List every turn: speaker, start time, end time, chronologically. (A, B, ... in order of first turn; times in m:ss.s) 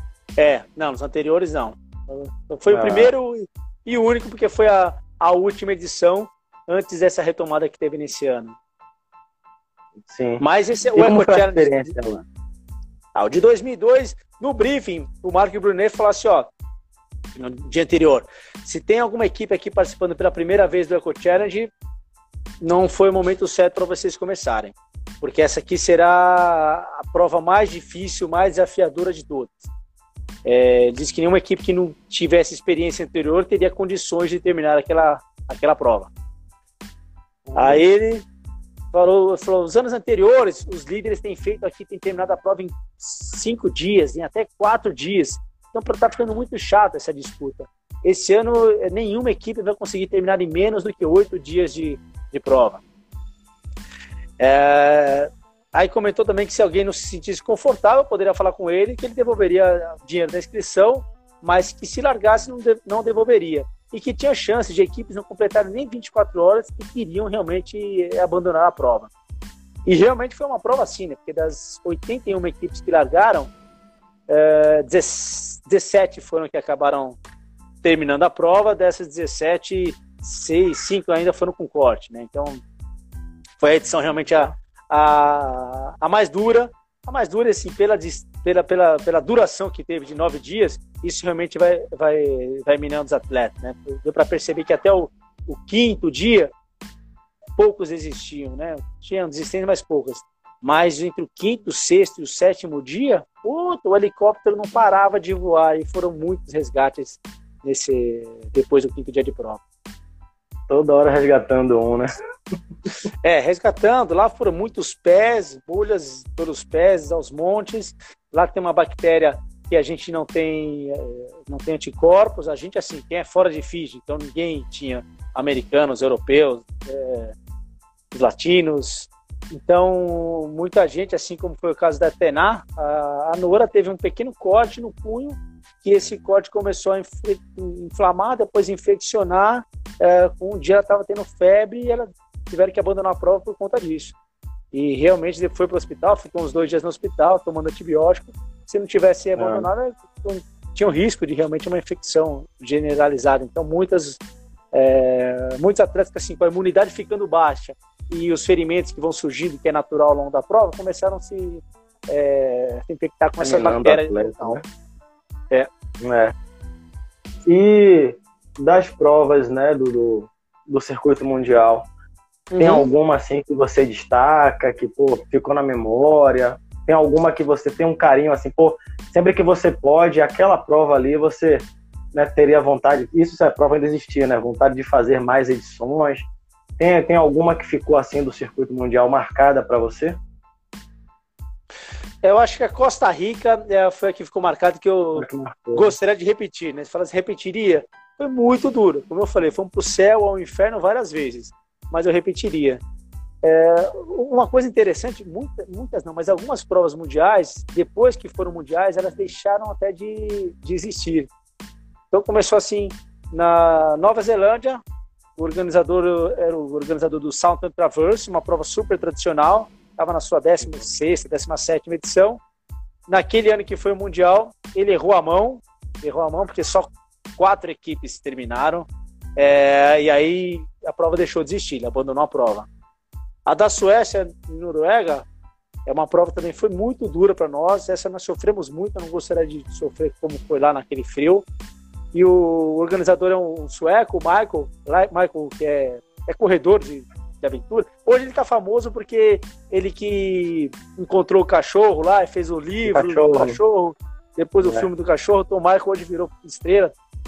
0:00.4-0:08.6 A
0:02.7-0:03.1 B
0:10.0-0:10.4 B
0:10.4-0:11.9 A
0:10.9-0:12.2 B
0:13.1-0:16.5 A
0:17.4-0:21.7 A
0:22.6-0:29.7 A
0:30.4-0:36.1 A
0:37.5-0:37.8 B
0:37.5-0:38.2 A
0:38.9-0:52.8 A
0:54.4-1:09.1 A
1:09.8-1:13.5 A
1:14.3-1:17.2 A
1:17.8-1:22.6 A
1:23.6-1:36.5 A
1:24.2-1:24.5 B
1:37.6-1:49.6 A
1:50.7-1:52.1 B
1:53.2-2:07.4 A
2:08.1-2:24.1 A
2:24.7-2:34.2 A
2:29.4-2:29.7 B
2:34.7-2:44.6 A
2:43.4-2:44.6 B
2:46.0-2:46.3 B
2:47.4-2:51.9 B
2:52.5-2:52.9 A
2:52.6-3:06.3 B
3:06.8-3:10.2 B
3:12.2-3:22.8 A
3:15.2-3:15.9 B
3:23.4-3:31.3 A
3:32.1-3:34.8 A
3:35.4-3:42.4 A
3:43.1-3:52.7 A
3:53.4-3:55.2 A
3:55.8-4:01.4 A
4:02.1-4:16.9 A
4:12.9-4:13.6 B